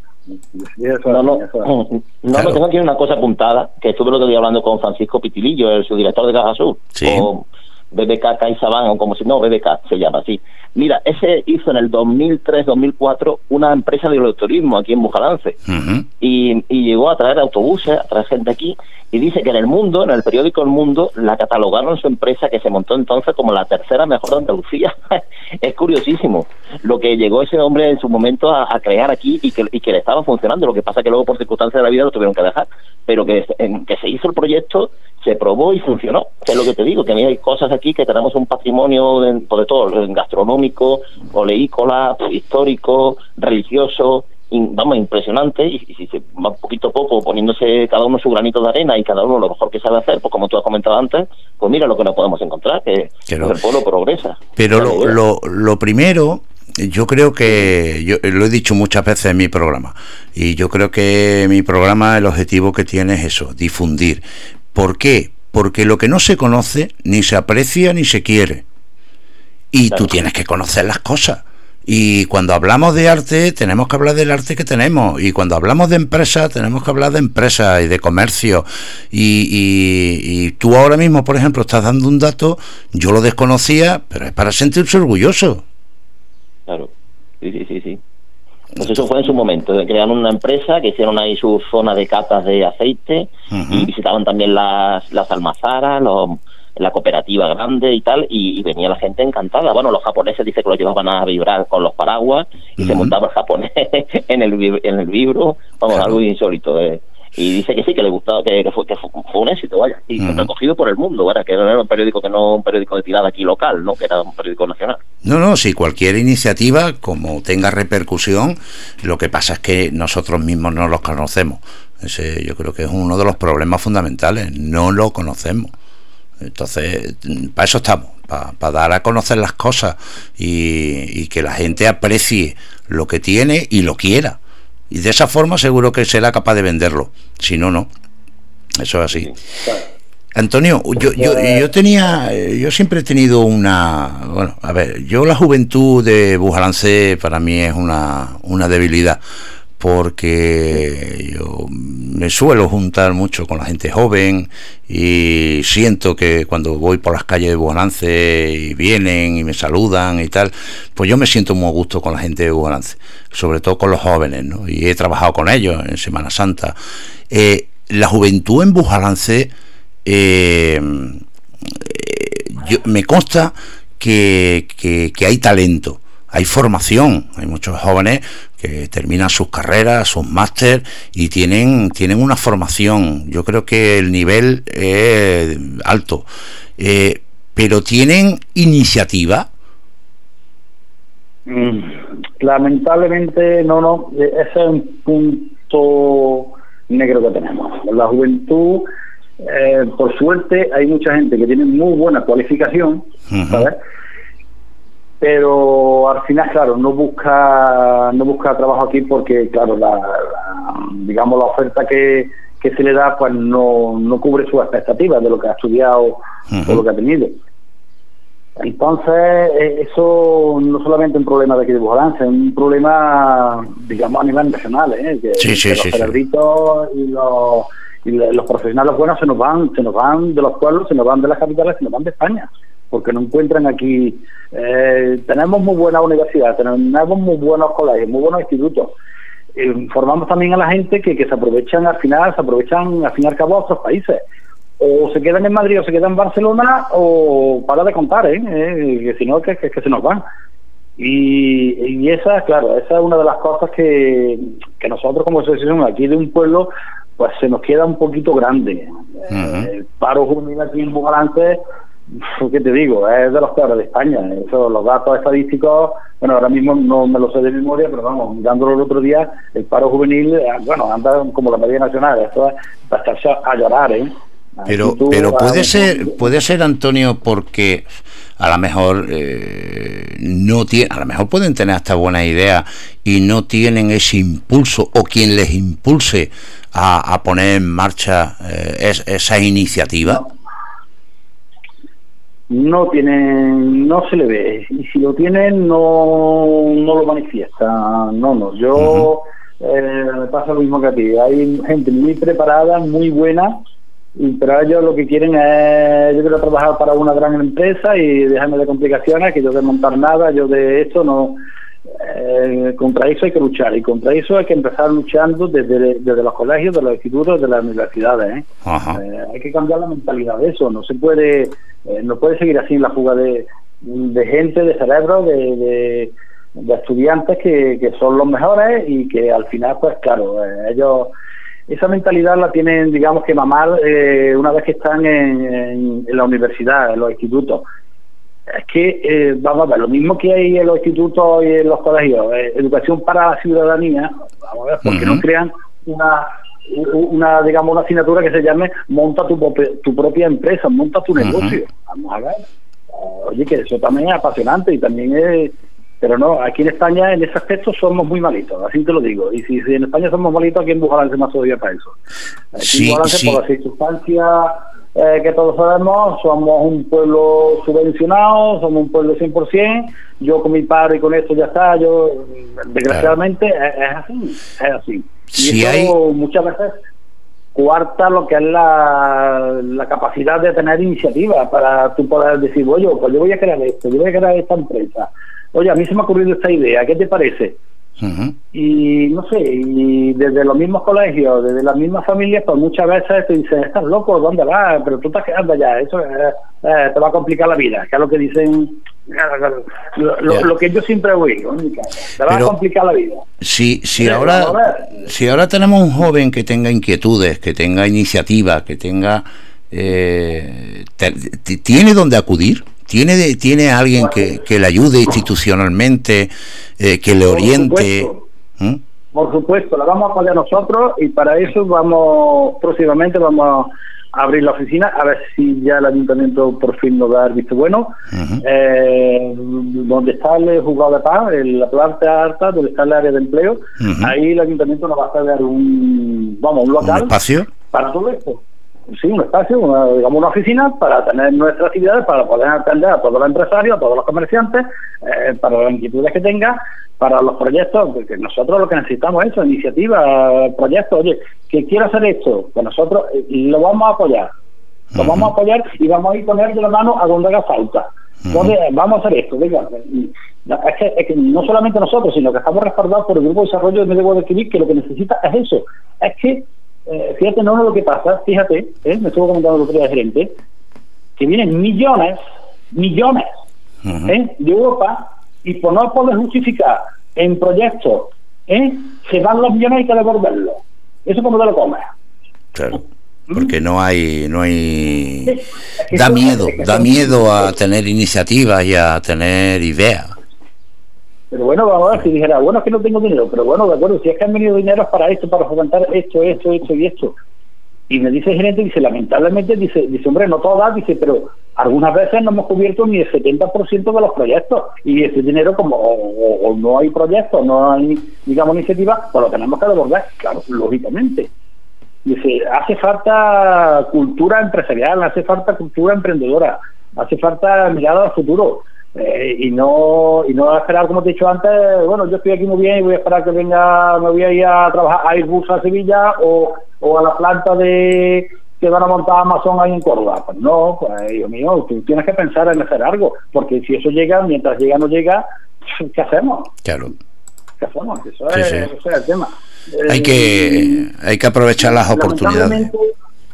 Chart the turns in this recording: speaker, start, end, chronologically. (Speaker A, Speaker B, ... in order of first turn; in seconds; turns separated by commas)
Speaker A: 0.5-1.7, Speaker B: 1.1-15.6, Speaker C: 2.3-2.6, Speaker C: 7.0-7.3, Speaker C: 15.7-16.1, Speaker B: 16.2-55.2, Speaker C: 53.3-53.6, Speaker C: 54.6-68.6, Speaker C: 69.7-85.6, Speaker B: 87.4-88.0, Speaker B: 88.8-115.0, Speaker C: 93.5-93.9, Speaker C: 102.8-103.1, Speaker C: 105.9-106.2, Speaker C: 110.2-110.5, Speaker C: 115.2-125.7, Speaker C: 126.4-134.4, Speaker C: 134.9-137.9, Speaker C: 138.8-139.3, Speaker C: 140.3-149.2, Speaker A: 141.2-141.6, Speaker C: 149.8-166.8, Speaker C: 167.3-169.5, Speaker C: 170.0-189.5, Speaker A: 191.5-198.9, Speaker A: 199.4-203.8, Speaker C: 203.3-203.7, Speaker A: 205.2-217.4, Speaker C: 216.5-216.8, Speaker A: 218.6-238.9, Speaker C: 225.4-226.1, Speaker A: 239.5-244.2, Speaker A: 244.8-250.2, Speaker A: 251.0-276.3, Speaker C: 259.3-259.7, Speaker C: 274.6-290.2, Speaker A: 292.5-303.6, Speaker C: 298.8-299.1, Speaker A: 304.1-311.4, Speaker A: 311.9-331.1, Speaker C: 318.6-319.0, Speaker A: 331.7-337.6, Speaker A: 338.5-362.0, Speaker C: 344.8-345.2, Speaker C: 351.2-351.5, Speaker A: 362.5-376.8, Speaker C: 362.6-363.4, Speaker C: 375.3-375.9, Speaker A: 377.5-387.6, Speaker C: 388.0-388.4, Speaker A: 388.5-403.2, Speaker C: 402.2-402.5, Speaker C: 403.4-418.8, Speaker A: 404.0-405.0, Speaker A: 417.2-418.2, Speaker A: 419.1-437.1, Speaker C: 428.1-428.4, Speaker C: 433.8-434.1, Speaker C: 436.8-437.5, Speaker A: 437.7-454.3, Speaker C: 454.9-455.3, Speaker A: 454.9-470.3, Speaker C: 458.3-458.5, Speaker A: 471.2-472.2, Speaker A: 472.7-473.3, Speaker C: 473.8-474.1, Speaker A: 474.1-481.9, Speaker C: 482.5-485.4, Speaker A: 485.2-487.5, Speaker C: 485.9-490.1, Speaker A: 491.3-497.1, Speaker A: 497.9-511.3, Speaker A: 512.0-536.5, Speaker C: 536.6-536.9, Speaker A: 537.6-540.9, Speaker C: 538.3-538.7, Speaker C: 539.9-542.7, Speaker A: 541.6-542.9